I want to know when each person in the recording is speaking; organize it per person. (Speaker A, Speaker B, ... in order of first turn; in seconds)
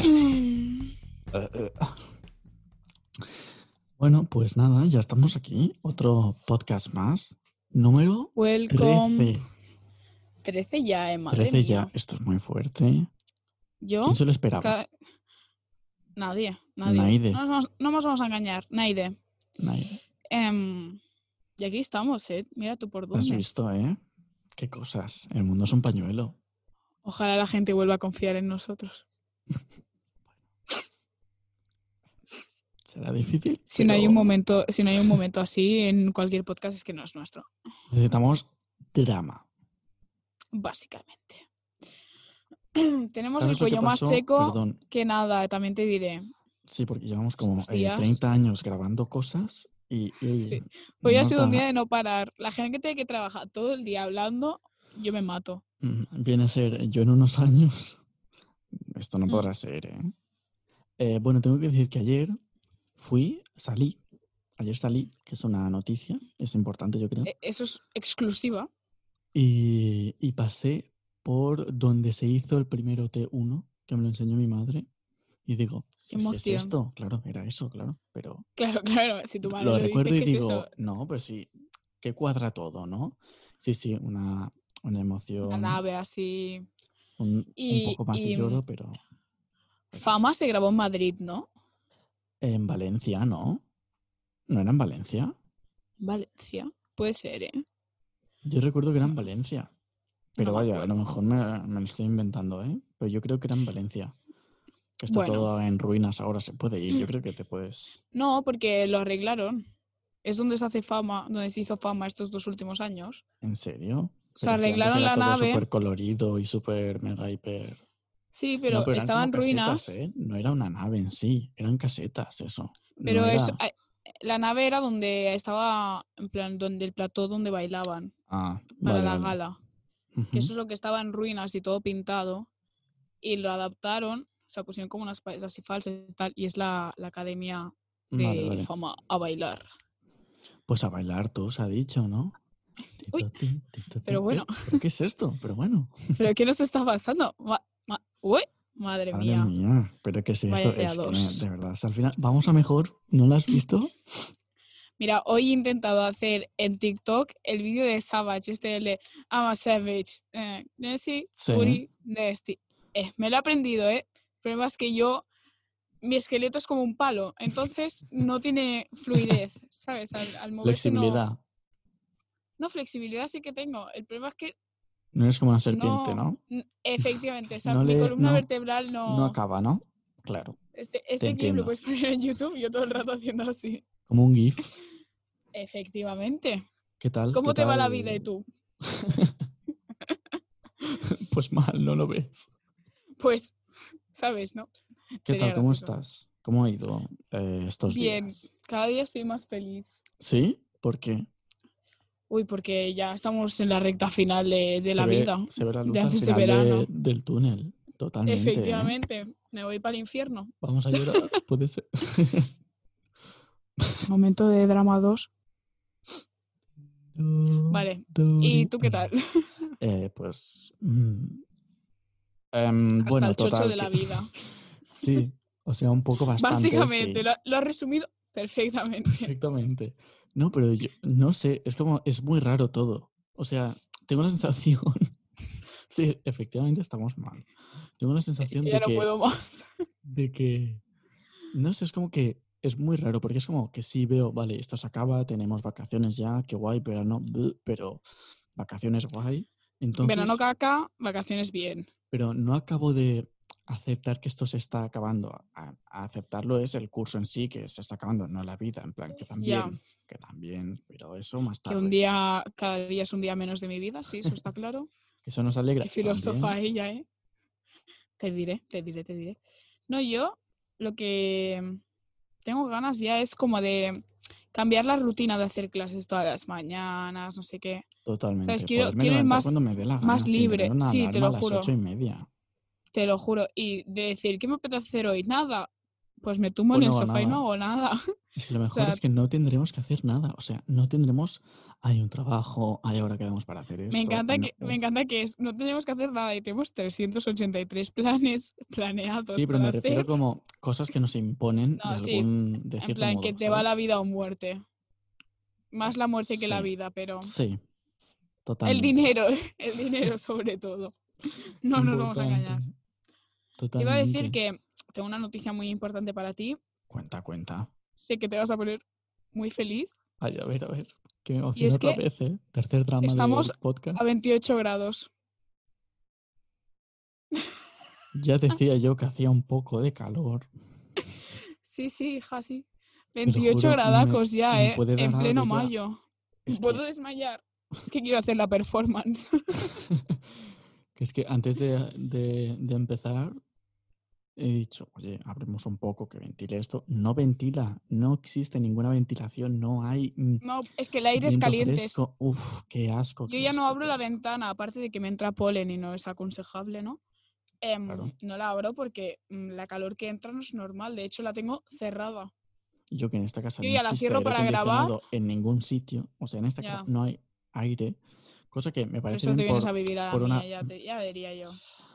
Speaker A: 1.3-2.1, 4.0-9.5, 11.3-13.1, 14.0-14.8, 16.9-17.4, 19.6-20.0, 23.1-24.0, 24.6-26.4, 32.9-35.2, 37.9-39.5, 43.4-44.8, 46.6-51.7, 55.8-58.0, 58.7-60.1, 61.0-62.4, 63.0-64.0, 64.6-67.3, 69.3-74.9, 75.5-78.5, 79.4-81.5, 82.0-85.8, 87.2-89.0, 92.4-93.6, 94.5-95.3, 98.4-99.7, 100.4-104.2, 105.0-108.0, 113.4-117.8, 118.7-123.6, 128.3-129.4, 130.2-130.5, 138.1-138.7, 140.7-142.4, 143.0-146.2, 149.1-154.3, 161.4-161.8, 169.2-169.4, 170.6-171.4, 175.1-176.4, 177.6-178.5, 179.1-180.6, 181.2-181.7, 184.1-184.7, 187.0-188.3, 188.8-189.4, 190.8-192.5, 195.3-198.5, 200.2-201.3, 204.9-208.9, 210.6-212.5, 217.1-219.1, 219.8-221.4, 222.5-224.3, 224.9-227.2, 229.2-235.1, 235.9-237.5, 238.0-239.1, 240.0-240.8, 241.5-248.0, 248.6-250.4, 252.1-262.0, 265.2-266.6, 278.1-282.3, 286.7-287.4, 288.4-294.8, 299.3-303.7, 306.3-306.7, 307.2-307.6, 308.4-309.0, 311.8-312.7, 313.6-314.4, 316.9-317.7, 320.2-324.0, 328.1-330.5, 333.2-335.7, 336.5-336.8, 339.9-340.2, 341.0-343.4, 344.4-350.4, 351.2-354.1, 357.9-358.1, 362.9-368.0, 368.5-370.7
Speaker B: 8.4-9.3, 10.4-11.9, 13.8-14.9, 16.2-19.2, 20.3-21.0, 21.6-23.4, 27.1-29.1, 33.7-37.5, 40.5-41.4, 42.8-46.3, 47.4-48.2, 50.4-55.6, 67.2-68.7, 76.1-76.8, 78.6-80.7, 85.5-86.7, 87.6-88.6, 89.9-91.5, 96.0-97.6, 100.4-100.9, 105.1-105.5, 108.1-109.7, 110.2-113.2, 114.3-115.7, 118.3-119.9, 123.0-128.1, 128.8-129.6, 130.3-132.5, 133.2-139.7, 144.1-144.8, 146.2-149.5, 150.5-151.4, 155.0-165.3, 166.0-171.2, 172.6-174.6, 175.7-179.4, 180.8-183.8, 185.5-186.7, 187.3-188.4, 193.2-193.6, 194.1-194.7, 195.2-195.9, 197.9-199.9, 202.3-206.9, 208.3-211.3, 214.1-215.3, 217.7-219.5, 223.0-224.3, 226.4-229.3, 238.4-239.7, 250.0-251.9, 259.3-259.8, 261.7-264.9, 265.8-267.1, 268.2-271.8, 272.4-274.0, 274.5-277.9, 278.4-281.7, 282.9-285.7, 286.2-288.1, 288.7-289.0, 293.9-300.1, 301.8-304.6, 305.7-307.3, 308.6-311.0, 311.6-312.6, 313.8-316.6, 318.0-319.9, 321.6-322.0, 323.0-325.1, 331.6-339.8, 350.4-352.0, 353.3-357.0, 357.6-362.3, 363.6-365.0, 366.6-366.9, 369.1-371.6